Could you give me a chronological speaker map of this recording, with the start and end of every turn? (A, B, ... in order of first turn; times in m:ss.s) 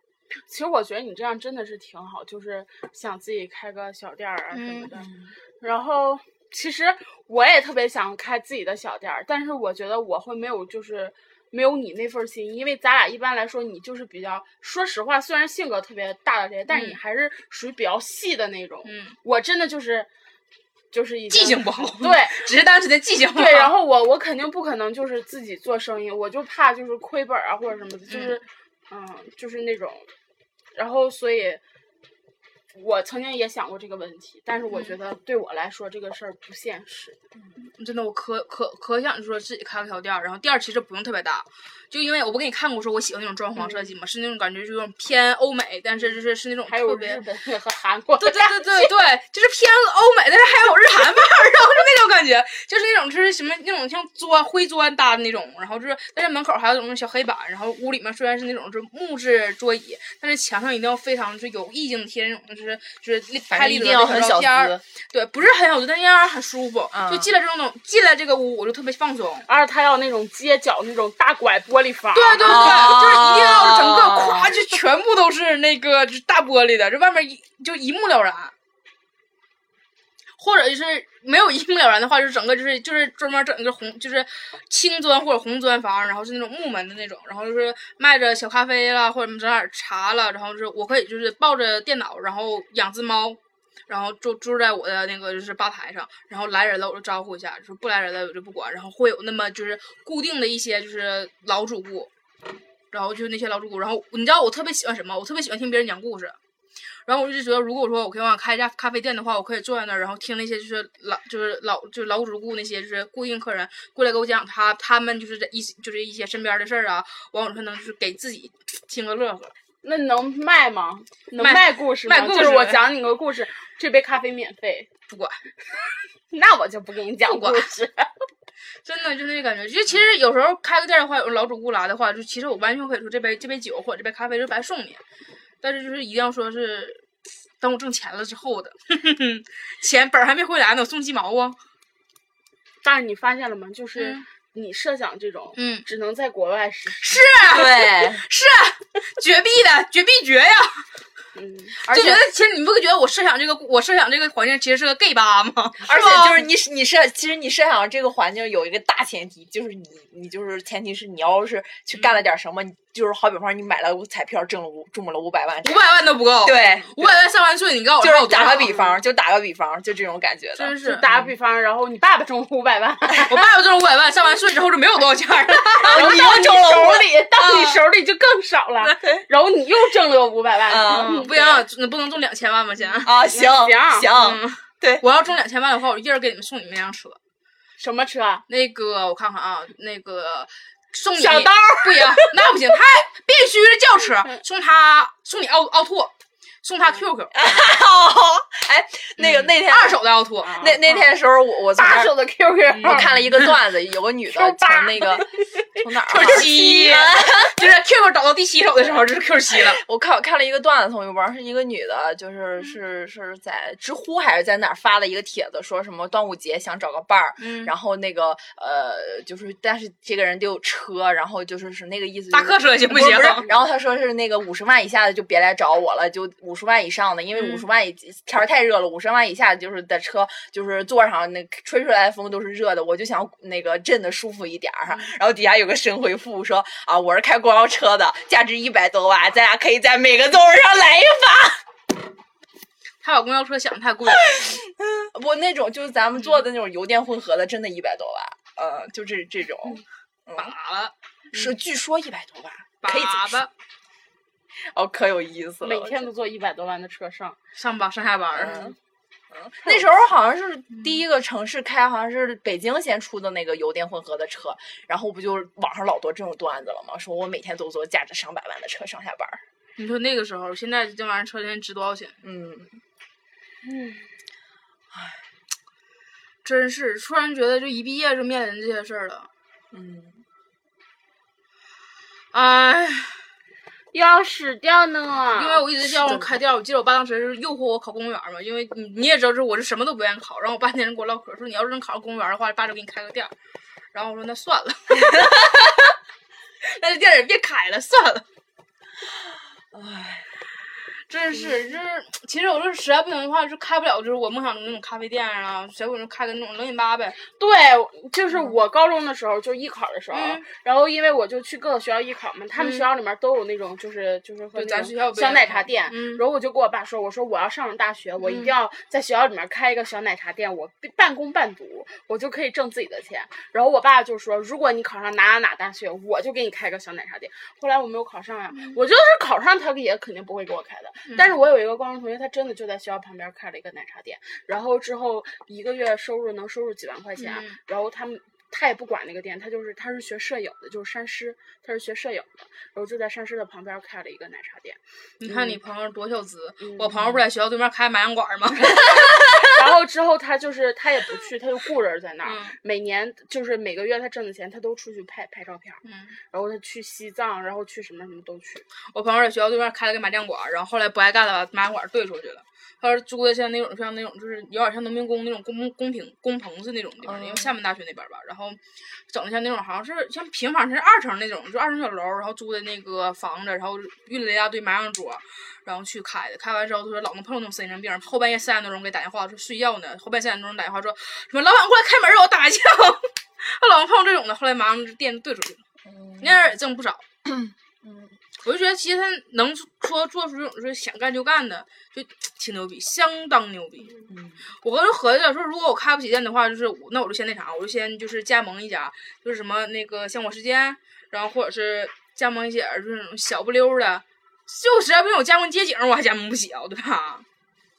0:00.5-0:05.1 A
0:04.5-0:04.9 B
0:04.9-0:05.4 C
0:05.6-0:20.1 A
0:16.7-0:17.0 B
0:18.8-0:19.2 B
0:20.9-0:22.5 A
0:21.3-0:23.7 B
0:23.4-0:30.1 A
0:28.1-0:28.4 B
0:30.8-0:31.6 A
0:32.7-0:37.2 A
0:34.7-0:35.0 B
0:37.6-0:47.2 B
0:43.6-0:43.9 A
0:46.7-0:48.9 A
0:48.2-1:09.5 B
1:03.5-1:04.8 C
1:06.9-1:07.3 C
1:09.5-1:12.9 A
1:12.1-1:18.5 B
1:12.4-1:14.6 C
1:20.4-1:42.1 B
1:42.9-1:46.4 B
1:47.1-1:59.5 B
1:59.8-2:04.9 A
2:01.4-2:02.8 B
2:05.1-2:05.4 B
2:06.3-2:08.1 A
2:07.2-2:07.7 B
2:08.8-2:15.0 B
2:15.6-2:17.0 B
2:17.6-2:21.6 B
2:22.8-2:27.2 A
2:24.0-2:24.2 B
2:25.6-2:25.8 B
2:27.0-2:30.8 B
2:27.4-2:28.2 C
2:31.3-2:32.1 A
2:31.8-2:36.5 B
2:35.8-2:45.9 C
2:42.0-2:42.2 B
2:45.6-2:48.8 B
2:46.4-2:47.2 C
2:48.0-2:51.3 C
2:50.6-2:51.0 B
2:50.8-2:53.4 A
2:53.3-2:56.3 B
2:55.8-2:57.1 C
2:55.9-3:01.6 A
2:57.4-2:57.8 B
3:00.7-3:01.2 C
3:00.8-3:03.1 B
3:03.0-3:05.0 C
3:03.3-3:04.1 A
3:04.1-3:07.2 B
3:07.8-3:08.4 A
3:08.5-3:16.1 B
3:11.2-3:12.0 A
3:16.6-3:17.3 B
3:17.3-3:20.0 C
3:19.2-3:20.6 B
3:20.4-3:21.1 A
3:20.5-3:22.1 C
3:21.7-3:23.2 A
3:22.7-3:27.6 C
3:22.8-3:23.5 B
3:24.3-3:25.2 A
3:25.9-3:29.8 B
3:26.2-3:26.8 A
3:29.5-4:01.6 C
3:37.4-3:37.7 B
3:42.3-3:43.5 B
3:47.4-3:47.6 B
4:03.0-4:04.6 B
4:04.3-4:10.6 C
4:06.2-4:06.4 B
4:10.4-4:10.9 B
4:11.3-4:13.4 C
4:12.8-4:13.5 B
4:14.7-4:16.1 C
4:15.6-4:17.4 A
4:17.6-4:18.7 B
4:18.3-4:18.8 C
4:19.3-4:29.4 C
4:20.8-4:21.0 B
4:29.8-4:32.2 B
4:32.2-4:32.8 C
4:33.6-4:34.1 A
4:34.9-4:35.2 C
4:36.4-4:39.3 B
4:39.7-4:40.2 C
4:42.3-4:43.3 B
4:43.9-4:45.6 A
4:45.3-4:53.3 B
4:45.9-4:46.4 C
4:53.9-4:56.0 B
4:56.6-4:58.2 B
4:59.7-5:00.3 C
5:01.1-5:07.2 B
5:07.3-5:45.6 A
5:10.1-5:10.4 B
5:12.6-5:12.9 B
5:14.6-5:16.2 B
5:18.2-5:18.5 B
5:28.5-5:28.8 B
5:31.1-5:31.4 B
5:37.2-5:37.6 B
5:45.2-5:48.9 B
5:46.6-5:46.9 A
5:47.0-5:47.2 C
5:49.4-5:58.6 A
5:52.2-5:52.6 B
5:55.8-5:56.2 B
5:58.9-6:25.6 B
6:07.0-6:07.6 C
6:25.8-6:26.6 C
6:26.2-6:27.0 B
6:27.2-6:28.2 C
6:28.4-6:34.0 B
6:34.1-6:34.4 C
6:34.6-6:47.2 B